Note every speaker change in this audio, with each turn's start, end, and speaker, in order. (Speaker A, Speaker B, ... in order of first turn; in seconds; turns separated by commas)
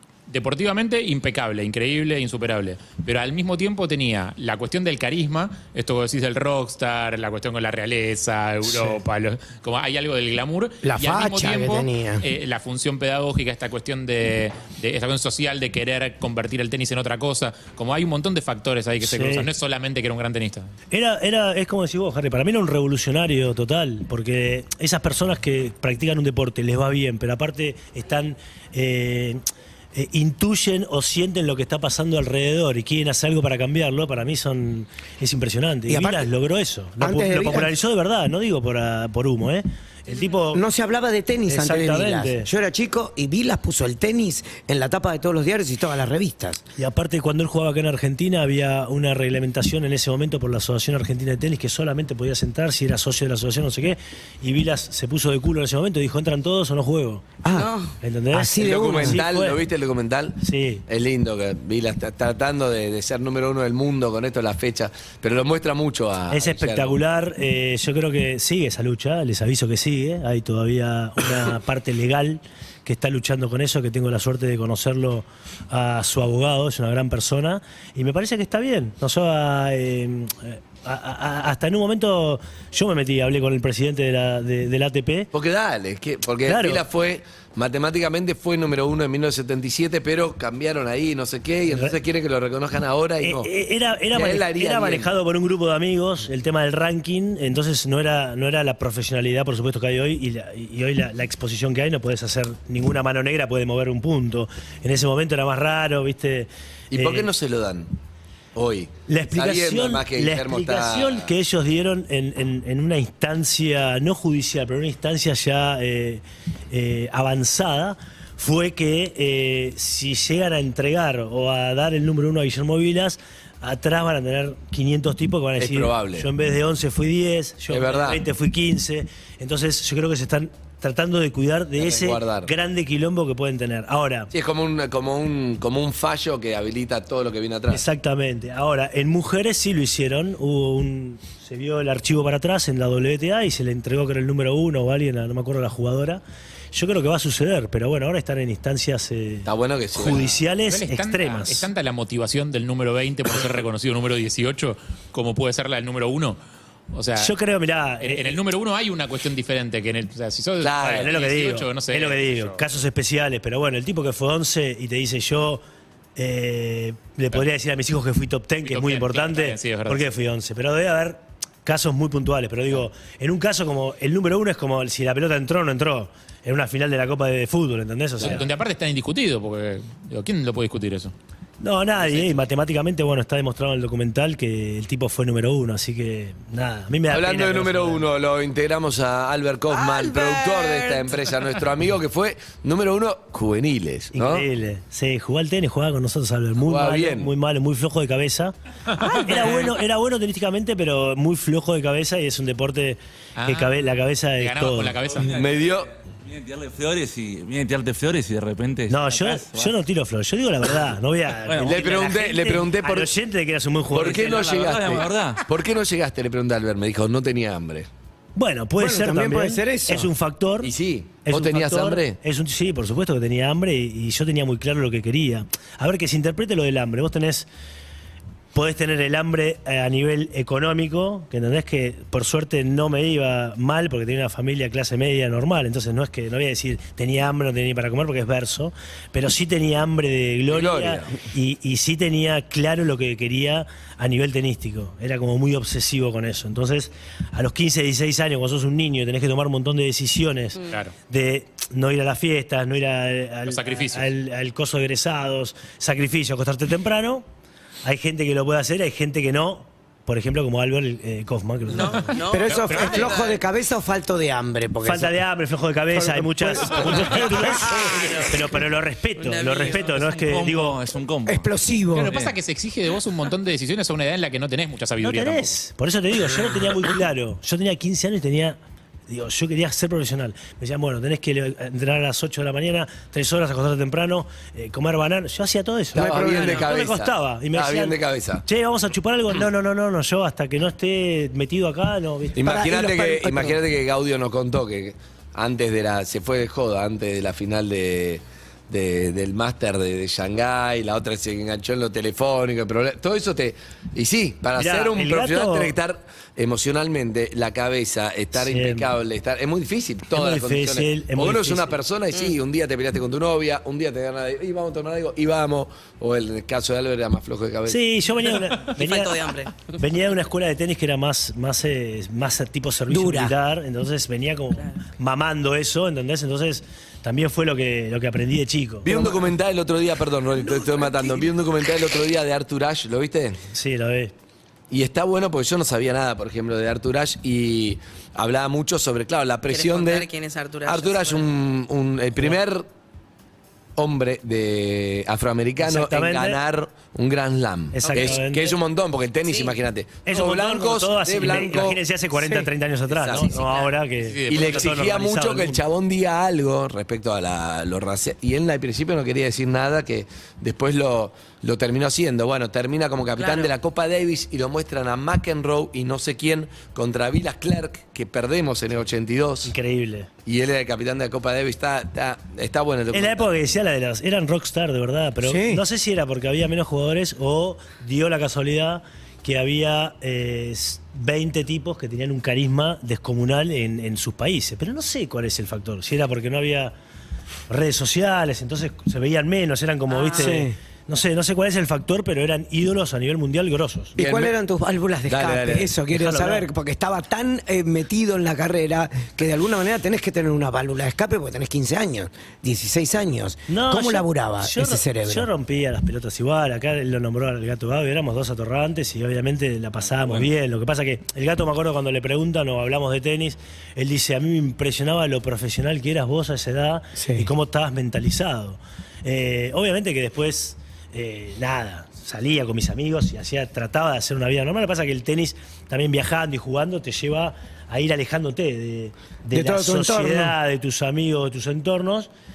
Speaker A: 0.3-20.7, Speaker B: 8.7-8.9, Speaker B: 10.8-12.2, Speaker C: 19.0-19.5, Speaker C: 20.9-40.6, Speaker B: 35.9-36.3, Speaker B: 37.0-37.7, Speaker B: 40.5-46.6, Speaker C: 41.5-42.5, Speaker C: 46.8-57.2, Speaker B: 57.4-57.7, Speaker D: 57.5-57.9, Speaker C: 58.0-59.6, Speaker B: 58.3-59.2, Speaker E: 58.5-67.0, Speaker C: 60.4-60.8, Speaker C: 66.3-85.3, Speaker E: 85.3-93.5, Speaker C: 86.5-86.8, Speaker C: 91.7-92.0, Speaker C: 93.2-107.3, Speaker E: 94.1-95.1, Speaker E: 106.9-107.9, Speaker E: 108.5-111.3, Speaker C: 109.1-134.3, Speaker E: 125.6-126.3, Speaker E: 127.7-128.2, Speaker E: 131.8-132.5, Speaker E: 134.3-137.8, Speaker C: 137.7-146.2, Speaker C: 146.7-151.7, Speaker E: 149.4-150.2, Speaker A: 150.1-156.4, Speaker A: 156.9-157.3, Speaker C: 157.2-158.4, Speaker A: 158.0-162.6, Speaker E: 160.6-161.1, Speaker C: 160.9-165.6, Speaker C: 166.2-178.4, Speaker A: 168.6-170.1, Speaker A: 178.2-181.1, Speaker C: 181.6-188.0, Speaker E: 187.1-194.5, Speaker D: 189.7-191.2, Speaker C: 194.1-205.0, Speaker E: 196.6-197.3, Speaker A: 198.9-199.7, Speaker A: 203.3-203.7, Speaker A: 204.4-205.3, Speaker F: 205.1-209.7, Speaker E: 205.2-205.9, Speaker C: 208.9-214.5, Speaker F: 211.4-211.9, Speaker E: 211.6-213.1, Speaker E: 213.9-217.9, Speaker F: 213.9-215.4, Speaker C: 218.3-220.7, Speaker B: 218.8-220.1, Speaker E: 220.6-222.2, Speaker C: 221.2-227.5, Speaker C: 228.5-257.2, Speaker E: 240.5-241.2, Speaker A: 250.7-250.9, Speaker A: 253.5-254.1, Speaker C: 257.8-262.1, Speaker D: 261.7-263.4, Speaker B: 262.2-265.2, Speaker A: 262.4-263.2, Speaker C: 264.8-270.8, Speaker B: 265.9-268.6, Speaker D: 269.2-270.1, Speaker F: 269.9-271.5, Speaker B: 271.3-272.3, Speaker A: 271.9-275.6, Speaker C: 275.0-278.6, Speaker C: 279.1-292.5, Speaker E: 285.9-288.4, Speaker B: 285.9-286.6, Speaker D: 286.2-286.6, Speaker E: 292.4-317.8, Speaker B: 292.4-293.6, Speaker C: 304.6-305.8, Speaker C: 308.3-308.9, Speaker C: 310.1-311.8, Speaker C: 317.7-328.9, Speaker D: 318.6-319.8, Speaker B: 322.9-323.3, Speaker E: 328.8-333.4, Speaker B: 328.9-329.2, Speaker C: 333.5-334.1, Speaker E: 334.7-340.1, Speaker D: 339.5-341.3, Speaker E: 340.6-342.7, Speaker E: 343.8-351.8, Speaker C: 345.6-346.4, Speaker C: 347.7-348.6, Speaker D: 349.2-349.5, Speaker C: 350.1-355.6, Speaker E: 352.9-353.4, Speaker D: 353.2-353.7, Speaker A: 354.0-354.7, Speaker E: 354.3-369.5, Speaker D: 363.1-363.5, Speaker C: 369.4-370.1, Speaker E: 370.2-373.3, Speaker C: 372.9-386.7, Speaker B: 375.2-375.6, Speaker C: 387.5-393.9, Speaker D: 389.9-390.4, Speaker B: 390.1-390.6, Speaker B: 393.9-405.3, Speaker E: 394.0-394.3, Speaker E: 395.0-395.7, Speaker C: 395.9-396.5, Speaker C: 403.5-432.1, Speaker F: 409.9-410.3, Speaker B: 417.0-417.3, Speaker B: 429.3-430.3